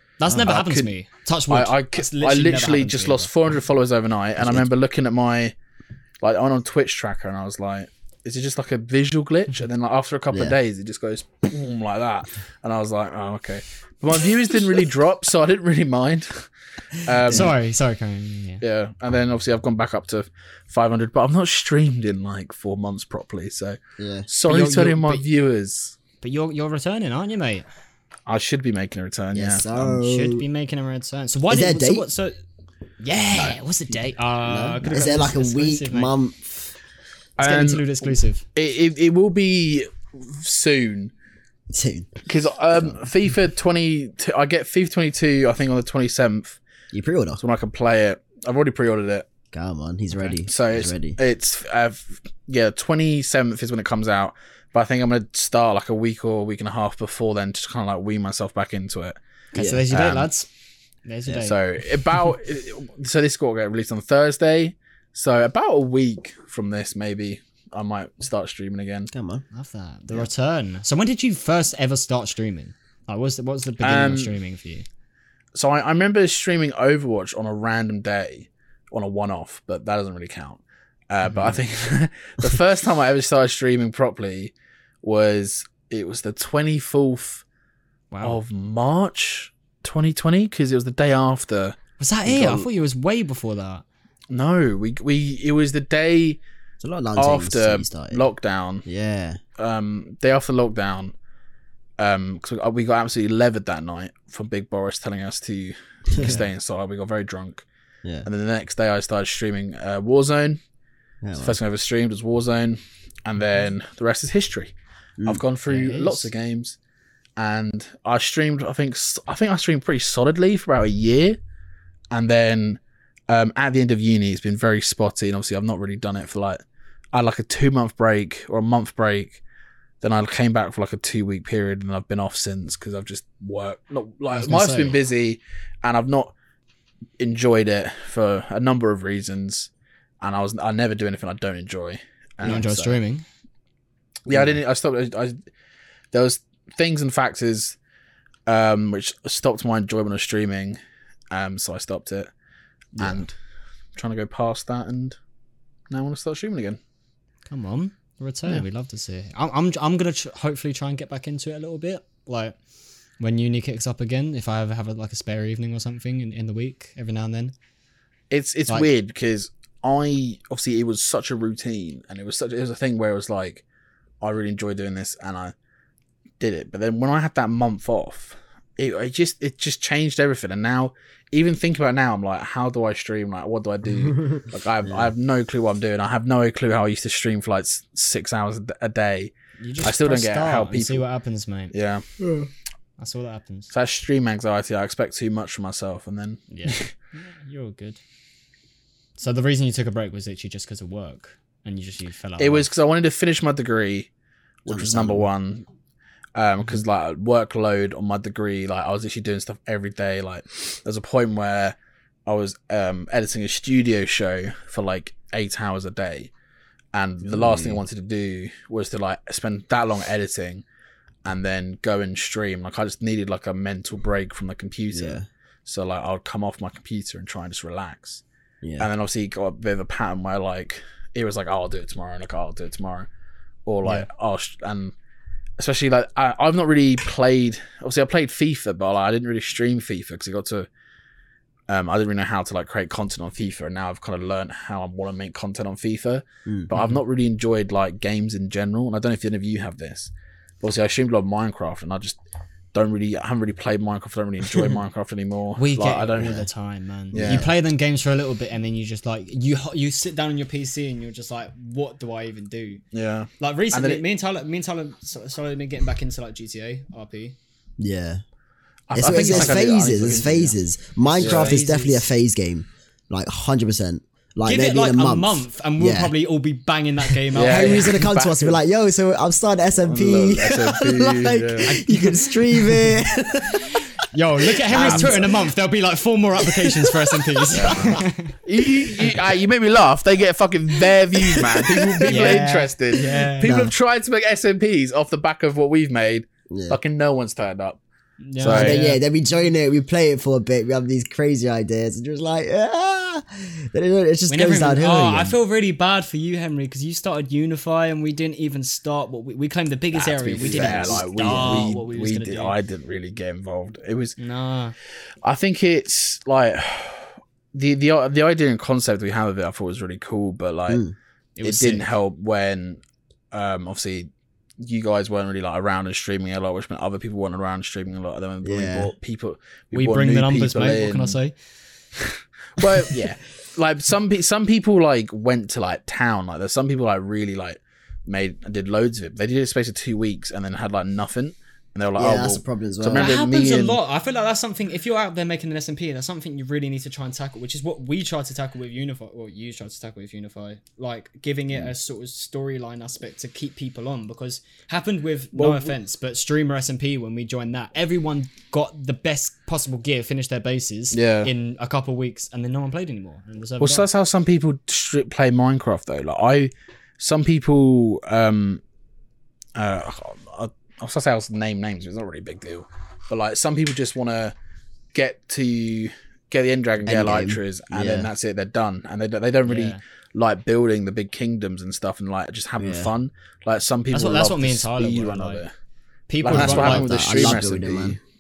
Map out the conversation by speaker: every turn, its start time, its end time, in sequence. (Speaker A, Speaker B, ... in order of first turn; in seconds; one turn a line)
Speaker A: 0.2-3.3
Speaker B: 0.3-0.5
Speaker C: 0.3-0.9
Speaker C: 1.5-5.5
Speaker B: 4.4-4.7
Speaker C: 6.2-17.5
Speaker B: 17.3-17.5
Speaker A: 17.3-18.6
Speaker C: 18.6-25.9
Speaker B: 24.0-24.3
Speaker A: 24.5-25.2
Speaker A: 26.2-27.6
Speaker C: 28.3-29.7
Speaker B: 29.3-30.4
Speaker A: 29.7-32.3
Speaker B: 31.5-32.0
Speaker A: 33.0-36.1
Speaker B: 34.4-36.7
Speaker C: 37.4-41.1
Speaker A: 37.4-38.4
Speaker B: 41.7-42.2
Speaker C: 42.2-46.6
Speaker B: 46.9-47.4
Speaker C: 47.4-49.2
Speaker B: 49.5-51.2
Speaker C: 50.5-59.1
Speaker A: 59.5-60.5
Speaker B: 59.5-59.8
Speaker C: 59.9-60.3
Speaker A: 61.0-61.6
Speaker C: 61.4-69.1
Speaker B: 69.1-69.4
Speaker A: 69.5-74.8
Speaker C: 73.8-74.3
Speaker C: 75.5-87.4
Speaker A: 81.2-81.6
Speaker A: 88.1-88.4
Speaker C: 88.2-91.8
Speaker A: 92.0-93.8
Speaker B: 92.2-92.7
Speaker C: 94.3-96.4
Speaker B: 96.8-98.2
Speaker C: 97.2-98.8
Speaker B: 98.8-99.4
Speaker C: 99.6-101.1
Speaker C: 102.0-107.7
Speaker A: 106.2-106.5
Speaker C: 108.2-110.6
Speaker B: 111.2-111.5
Speaker C: 111.3-116.8
Speaker A: 115.7-116.3
Speaker C: 117.4-121.4
Speaker C: 122.1-126.6
Speaker C: 127.1-129.4
Speaker C: 130.0-136.3
Speaker A: 134.3-135.0
Speaker C: 137.2-139.7
Speaker C: 140.2-143.0
Speaker A: 142.4-143.2
Speaker C: 144.3-145.4
Speaker C: 146.1-147.8
Speaker C: 148.5-150.8
Speaker C: 151.3-152.3
Speaker C: 152.9-153.3
Speaker C: 153.9-155.2
Speaker C: 155.9-156.8
Speaker A: 157.5-162.6
Speaker A: 163.2-167.5
Speaker C: 168.3-173.6
Speaker C: 174.2-175.5
Speaker C: 176.4-191.0
Speaker A: 189.6-191.7
Speaker C: 191.7-192.0
Speaker B: 192.2-192.5
Speaker A: 193.0-193.7
Speaker C: 193.7-196.9
Speaker A: 196.5-198.0
Speaker A: 199.2-202.7
Speaker C: 202.4-204.1
Speaker C: 204.6-205.7
Speaker B: 204.7-205.3
Speaker C: 206.3-211.7
Speaker C: 212.2-216.3
Speaker C: 216.9-220.6
Speaker B: 217.2-217.8
Speaker C: 221.2-228.2
Speaker B: 224.9-225.2
Speaker B: 228.6-228.9
Speaker C: 228.8-233.1
Speaker C: 233.7-234.9
Speaker C: 235.6-240.7
Speaker C: 241.7-252.2
Speaker C: 252.7-256.4
Speaker A: 255.6-262.8
Speaker C: 257.1-257.4
Speaker B: 257.1-257.5
Speaker C: 262.9-264.0
Speaker A: 263.4-267.4
Speaker B: 267.8-268.2
Speaker C: 268.9-270.6
Speaker B: 268.9-276.1
Speaker A: 269.0-269.6
Speaker A: 271.1-272.0
Speaker C: 271.2-271.6
Speaker A: 274.4-278.0
Speaker B: 277.1-283.7
Speaker C: 277.3-278.6
Speaker C: 279.8-281.7
Speaker A: 281.7-283.0
Speaker A: 283.8-288.3
Speaker B: 284.4-285.5
Speaker C: 284.7-285.2
Speaker B: 286.4-288.0
Speaker C: 287.5-297.8
Speaker B: 291.2-292.4
Speaker A: 292.0-293.5
Speaker B: 293.4-293.7
Speaker B: 296.5-296.8
Speaker A: 298.2-299.0
Speaker C: 298.4-298.8
Speaker B: 298.4-305.4
Speaker A: 304.3-312.5
Speaker C: 309.9-314.2
Speaker B: 310.4-311.7
Speaker A: 314.2-314.8
Speaker C: 315.2-320.8
Speaker B: 320.7-320.9
Speaker A: 321.4-321.9
Speaker C: 321.4-324.1
Speaker C: 324.6-331.2
Speaker B: 328.4-328.9
Speaker A: 329.7-331.3
Speaker C: 332.0-343.8
Speaker B: 342.0-343.1
Speaker A: 342.9-363.9
Speaker C: 355.3-355.7
Speaker C: 360.9-361.3
Speaker C: 363.6-368.6
Speaker C: 369.6-374.3
Speaker C: 374.9-385.5
Speaker B: 376.8-378.1
Speaker A: 379.4-379.8
Speaker B: 382.6-382.9
Speaker A: 383.9-385.4
Speaker A: 386.1-387.4
Speaker B: 386.2-388.0
Speaker C: 386.2-388.0